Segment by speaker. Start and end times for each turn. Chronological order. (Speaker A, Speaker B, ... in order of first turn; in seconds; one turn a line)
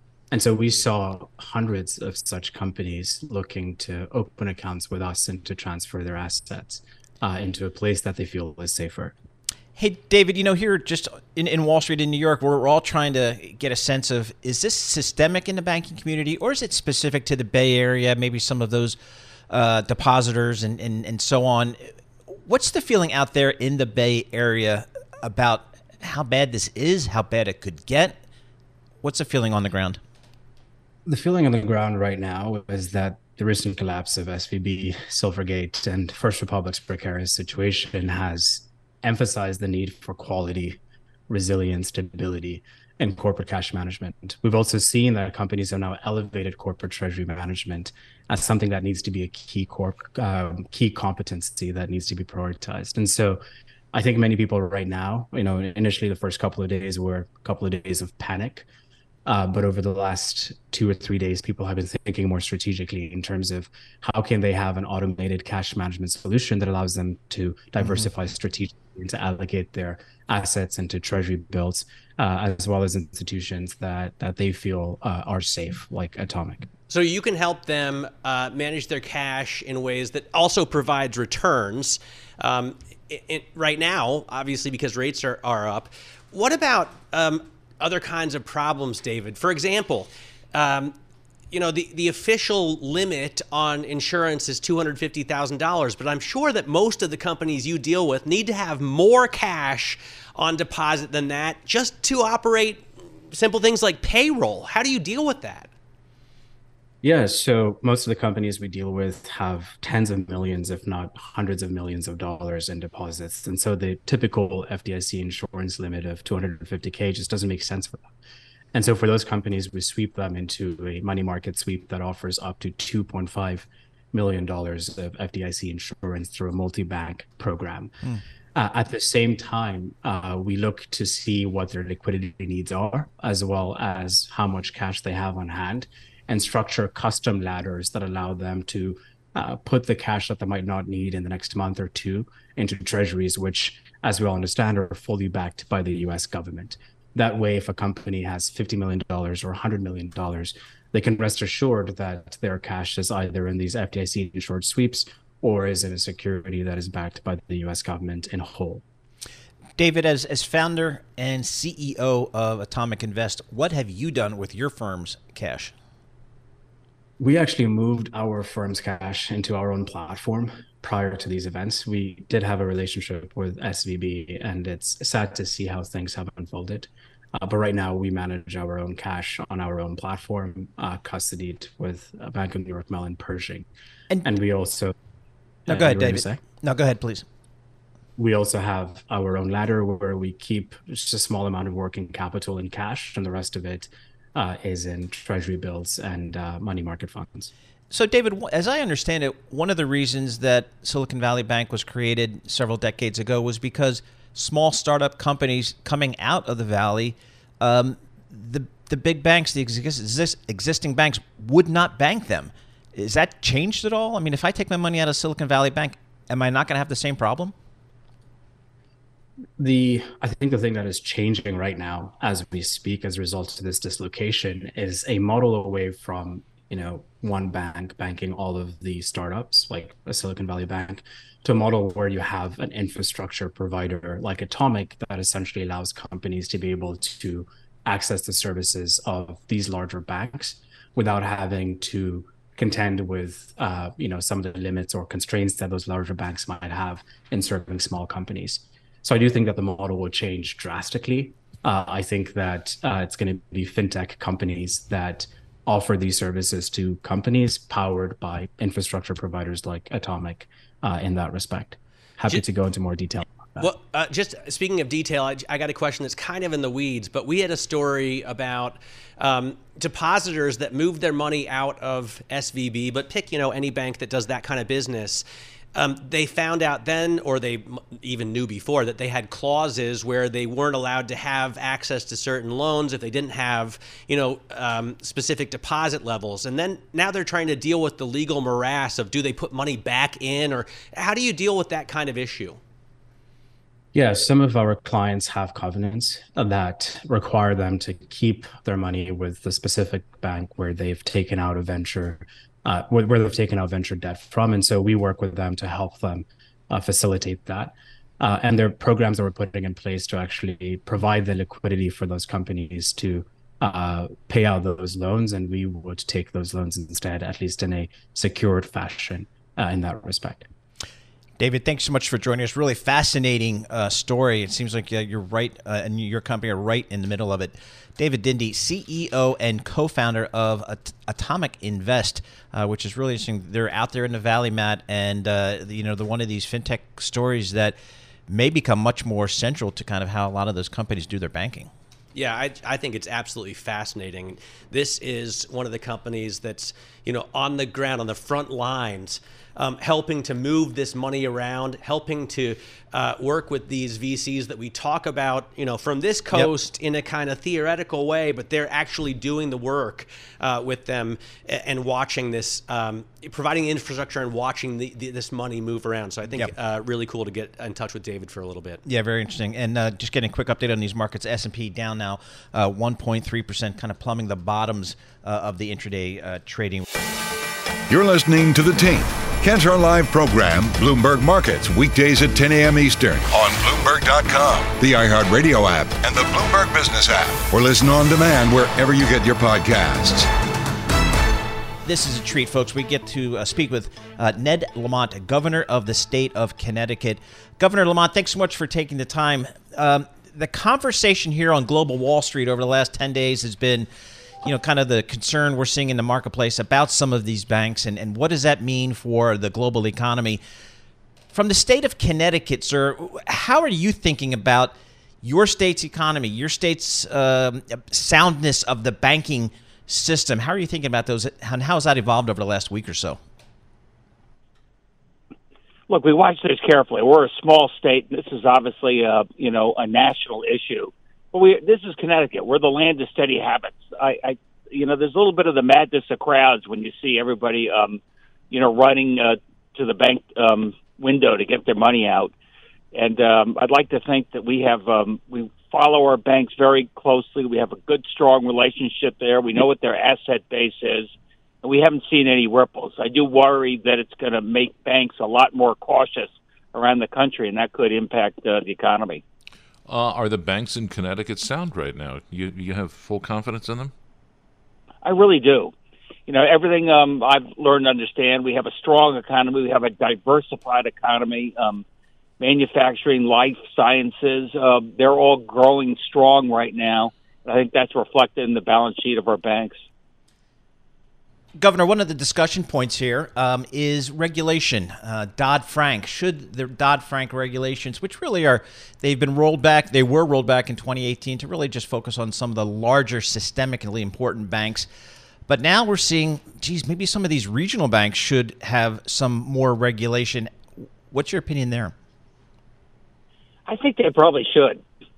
Speaker A: 0.3-9.1
Speaker B: 9.8-19.0
Speaker B: 19.5-28.2
Speaker B: 29.0-30.0
Speaker A: 31.1-53.4
Speaker A: 53.9-58.7
Speaker A: 59.3-76.7
Speaker C: 76.9-91.0
Speaker C: 91.5-105.7
Speaker A: 107.0-118.1
Speaker A: 118.7-127.9
Speaker A: 128.6-158.8
Speaker B: 159.8-165.7
Speaker A: 167.2-183.7
Speaker A: 184.2-184.9
Speaker A: 185.7-186.4
Speaker B: 185.7-187.2
Speaker A: 188.2-197.5
Speaker B: 197.9-217.5
Speaker A: 219.6-263.7
Speaker C: 263.6-275.2
Speaker C: 275.8-292.6
Speaker A: 293.9-320.5
Speaker B: 321.4-337.8
Speaker B: 338.3-341.7
Speaker C: 342.1-368.8
Speaker B: 368.9-376.9
Speaker D: 377.9-390.3
Speaker B: 391.9-403.9
Speaker B: 404.4-410.4
Speaker B: 411.3-423.2
Speaker E: 425.9-438.0
Speaker E: 438.5-442.3
Speaker E: 442.9-451.1
Speaker E: 451.6-459.2
Speaker F: 459.9-463.9
Speaker E: 465.0-465.7
Speaker E: 466.3-471.9
Speaker E: 472.4-479.9
Speaker B: 481.6-494.9
Speaker B: 495.5-500.5
Speaker B: 501.1-501.9
Speaker E: 503.7-504.8